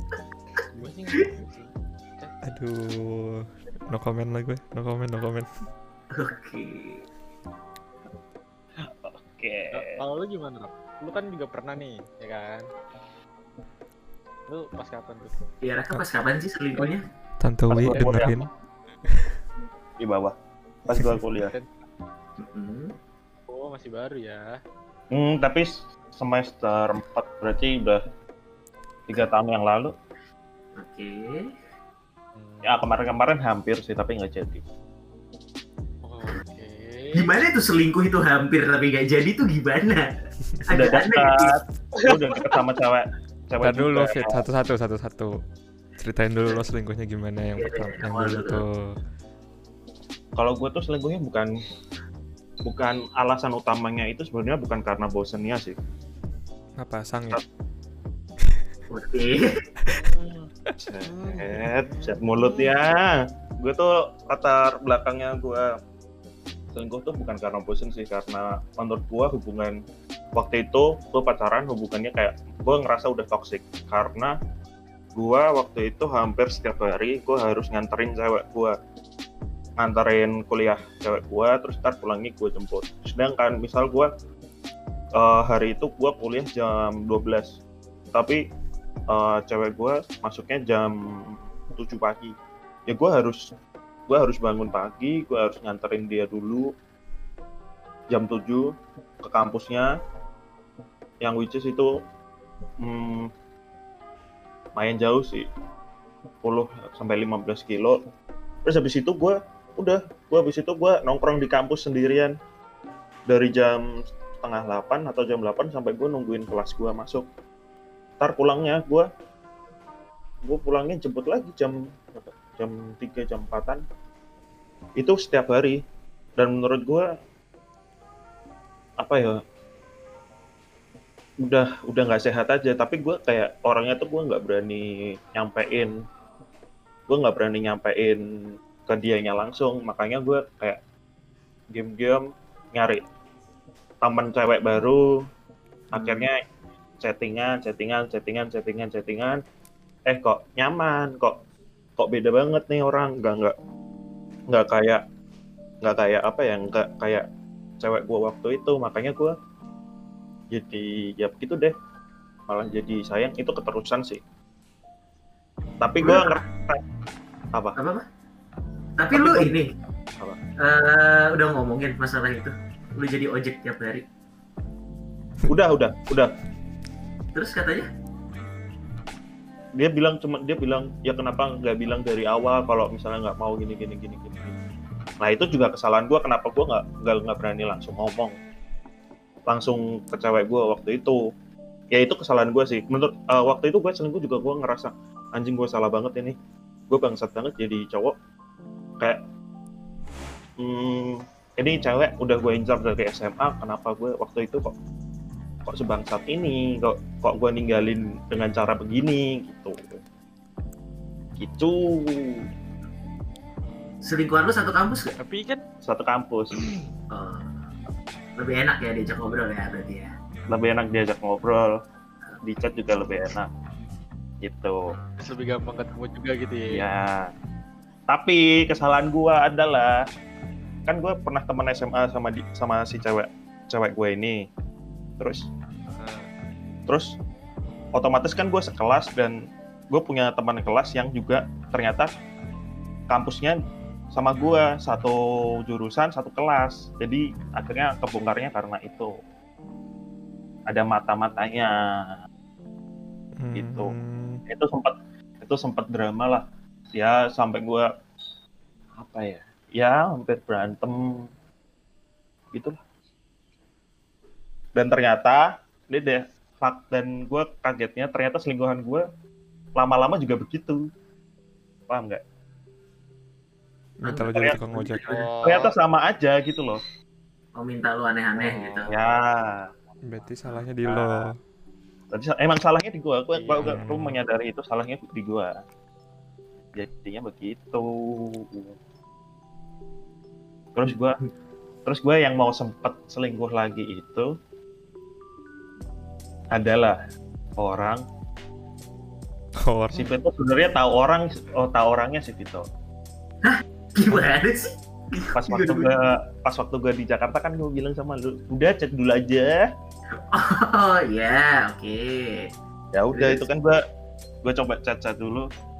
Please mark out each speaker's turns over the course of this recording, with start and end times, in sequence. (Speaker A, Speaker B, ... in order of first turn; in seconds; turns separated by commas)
Speaker A: 0.7-2.4, Speaker B: 2.4-5.5, Speaker C: 6.1-7.0, Speaker D: 8.8-9.8, Speaker A: 9.7-12.7, Speaker A: 14.5-15.4, Speaker C: 15.6-17.0, Speaker B: 17.4-18.5, Speaker D: 17.7-18.3, Speaker A: 17.9-18.3, Speaker D: 20.0-21.5, Speaker A: 21.3-21.9, Speaker C: 22.4-22.9, Speaker A: 23.5-24.5, Speaker D: 25.1-28.0, Speaker D: 29.1-29.9, Speaker C: 30.8-31.5, Speaker A: 32.4-32.8, Speaker D: 32.6-34.6, Speaker A: 36.0-37.3, Speaker C: 37.1-41.5, Speaker D: 40.7-44.4, Speaker A: 42.1-42.4, Speaker B: 43.6-45.4, Speaker B: 46.0-48.8, Speaker C: 47.5-48.6, Speaker D: 50.4-51.5, Speaker D: 52.6-55.8, Speaker B: 56.8-57.4, Speaker C: 58.9-59.5, Speaker D: 60.8-65.7, Speaker A: 61.1-62.2, Speaker D: 66.7-69.8, Speaker D: 70.3-74.3, Speaker D: 75.1-78.8, Speaker D: 79.8-84.1, Speaker D: 85.2-87.6, Speaker D: 88.1-88.4, Speaker D: 89.1-92.3, Speaker D: 92.9-93.4, Speaker D: 94.1-96.7, Speaker D: 98.1-98.7, Speaker D: 99.2-99.9, Speaker D: 101.2-101.9, Speaker D: 102.8-103.3, Speaker D: 104.8-105.5, Speaker D: 106.4-108.0, Speaker D: 108.6-112.3, Speaker D: 113.3-113.8, Speaker D: 114.4-117.2, Speaker D: 118.2-119.1, Speaker D: 120.5-123.8, Speaker D: 125.0-125.8, Speaker D: 126.4-127.1, Speaker D: 129.0-129.4, Speaker D: 131.4-135.9, Speaker D: 137.1-138.2, Speaker D: 138.9-140.8, Speaker D: 141.7-142.2, Speaker D: 142.7-143.0, Speaker D: 144.0-145.0, Speaker D: 145.9-146.4, Speaker D: 147.0-149.4, Speaker D: 150.1-151.4, Speaker D: 152.0-153.5, Speaker D: 154.5-155.0, Speaker D: 155.8-157.2, Speaker D: 157.8-159.3, Speaker D: 160.5-161.7, Speaker D: 162.5-164.2, Speaker D: 165.8-166.8, Speaker C: 166.0-166.3, Speaker C: 167.8-168.0, Speaker C: 169.0-169.7, Speaker D: 169.1-169.5, Speaker C: 170.6-174.0, Speaker D: 175.5-176.3, Speaker C: 177.3-177.9, Speaker D: 179.8-184.5, Speaker D: 185.2-188.3, Speaker D: 189.5-191.2, Speaker D: 191.9-196.3, Speaker D: 196.9-198.1, Speaker D: 200.6-204.7, Speaker D: 205.7-210.0, Speaker D: 211.4-212.4, Speaker C: 214.0-215.1, Speaker A: 215.2-215.6, Speaker D: 215.8-216.6, Speaker C: 217.1-217.5, Speaker C: 218.4-220.1, Speaker D: 220.5-221.7, Speaker D: 222.4-223.5, Speaker D: 224.4-224.8, Speaker A: 225.2-226.8, Speaker D: 226.7-227.3, Speaker D: 228.1-230.0, Speaker D: 230.9-234.4, Speaker D: 235.2-235.5, Speaker A: 235.9-236.3, Speaker D: 237.9-239.4, Speaker D: 239.9-242.1, Speaker D: 243.1-243.6, Speaker D: 244.1-249.1, Speaker D: 250.7-252.2, Speaker B: 253.4-254.4, Speaker D: 253.5-253.9, Speaker D: 254.5-256.4, Speaker D: 256.9-257.9, Speaker D: 259.0-261.2, Speaker D: 264.7-269.1, Speaker D: 269.8-270.9, Speaker D: 271.9-272.2, Speaker B: 274.0-275.2, Speaker C: 274.1-274.3, Speaker D: 274.2-274.6, Speaker A: 275.1-275.6, Speaker D: 275.4-276.8, Speaker C: 277.6-278.9, Speaker D: 278.9-279.7, Speaker B: 280.1-281.3, Speaker D: 280.9-281.3, Speaker D: 282.1-285.5, Speaker A: 283.4-283.8, Speaker B: 283.6-284.2, Speaker D: 286.8-288.7, Speaker D: 290.7-291.2, Speaker D: 291.9-294.3, Speaker D: 296.5-297.0, Speaker D: 297.6-298.0, Speaker B: 299.6-300.1, Speaker D: 299.9-302.6, Speaker C: 303.4-305.9, Speaker D: 305.3-309.6, Speaker C: 310.3-312.5, Speaker D: 312.9-313.8, Speaker C: 313.1-313.5, Speaker D: 314.4-315.5